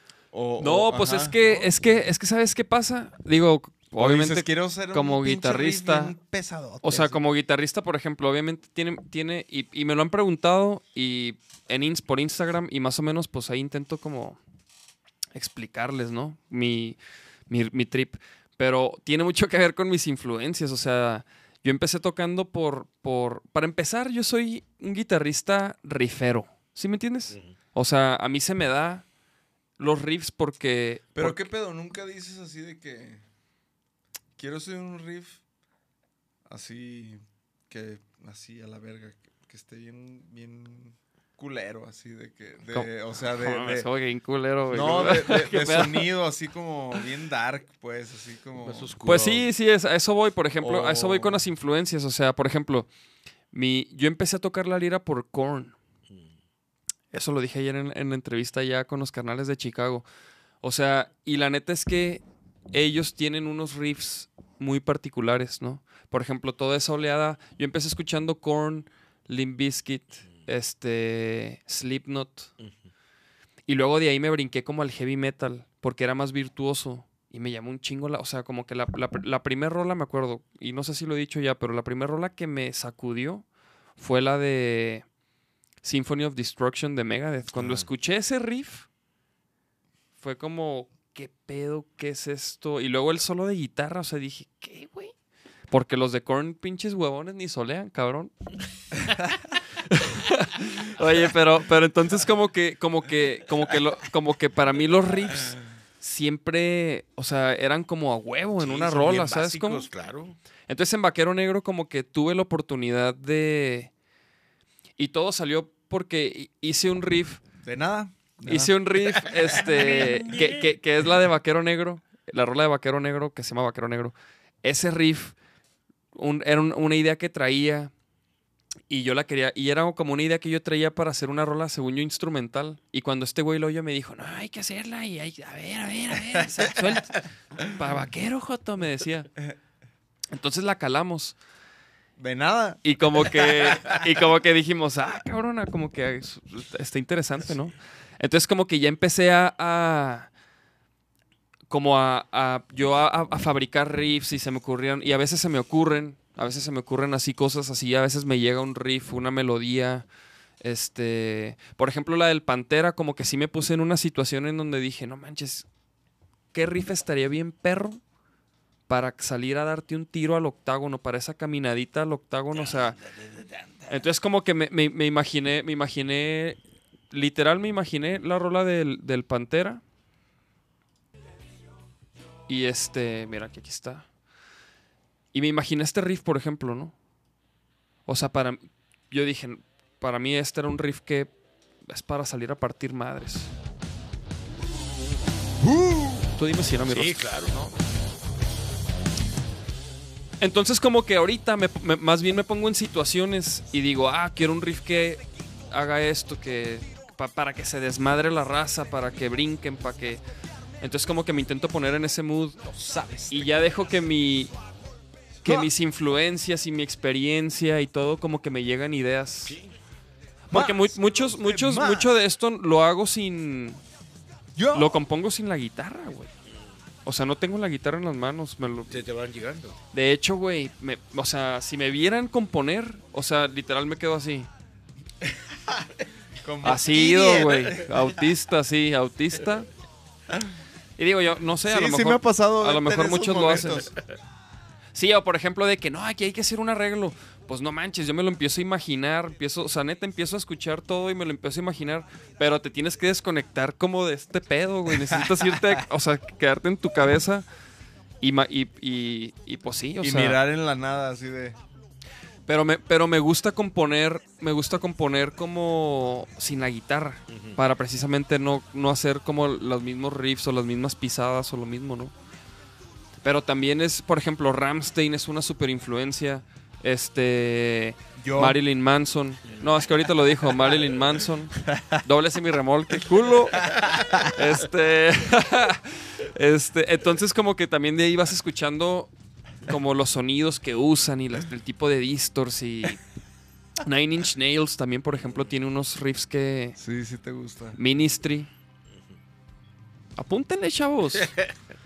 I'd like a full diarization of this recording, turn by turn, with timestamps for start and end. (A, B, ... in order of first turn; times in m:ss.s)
0:00.3-0:01.8 A
0:00.6-0:06.2 B
0:04.0-0:07.2 A
0:06.8-0:14.4 B
0:15.4-0:29.0 B
0:29.8-0:31.5 B
0:31.2-0:33.2 A
0:34.4-0:35.4 A
0:36.5-0:43.9 A
0:42.7-0:46.1 B
0:44.7-0:48.9 A
0:48.6-0:49.5 C
0:49.0-0:52.9 B
0:50.6-0:51.5 A
0:53.5-0:55.8 B
0:57.1-1:00.1 B
1:00.6-1:12.5 B
1:13.7-1:23.4 B
1:24.0-1:25.1 B
1:25.8-1:28.9 B
1:27.6-1:27.9 C
1:30.2-1:35.1 B
1:35.7-1:38.3 B
1:39.9-1:49.9 B
1:48.6-1:50.4 C
1:50.7-1:53.9 B
1:55.0-1:57.4 B
1:57.6-1:58.7 A
1:58.4-2:05.4 B
1:59.5-2:00.5 C
2:06.1-2:07.9 B
2:08.9-2:19.3 B
2:20.3-2:21.4 B
2:22.2-2:24.0 A
2:22.8-2:30.3 B
2:31.7-2:40.1 B
2:40.6-2:45.7 B
2:46.5-2:48.0 B
2:48.9-2:53.0 B
2:53.9-2:56.6 B
2:57.1-2:59.8 B
3:02.5-3:04.1 B
3:05.3-3:06.9 B
3:08.1-3:11.3 B
3:11.9-3:13.5 B
3:15.8-3:16.2 C
3:16.4-3:17.2 B
3:16.8-3:17.7 C
3:20.4-3:30.2 B
3:30.8-3:32.6 B
3:32.6-3:33.5 A
3:33.3-3:34.5 B
3:35.4-3:35.7 A
3:35.4-3:39.6 B
3:39.4-3:39.7 C
3:40.5-3:43.8 B
3:40.5-3:42.1 A
3:44.6-3:45.0 A
3:44.7-3:46.3 B
3:47.0-3:49.0 B
3:48.9-3:49.8 C
3:49.9-3:54.5 B
3:56.4-3:58.2 A
3:56.6-3:59.7 B
4:01.0-4:03.9 B
4:01.7-4:03.9 A
4:05.0-4:17.4 B
4:15.1-4:15.8 A
4:18.2-4:20.4 B
4:20.0-4:21.6 A
4:22.5-4:32.1 B
4:27.3-4:27.6 C
4:33.2-4:49.1 B
4:38.2-4:38.6 A
4:41.7-4:42.0 A
4:43.6-4:44.3 A
4:49.6-4:53.0 B
4:53.8-4:56.8 B
4:56.8-4:57.8 A
4:57.8-4:58.5 B
5:00.2-5:01.3 B
5:01.2-5:01.5 C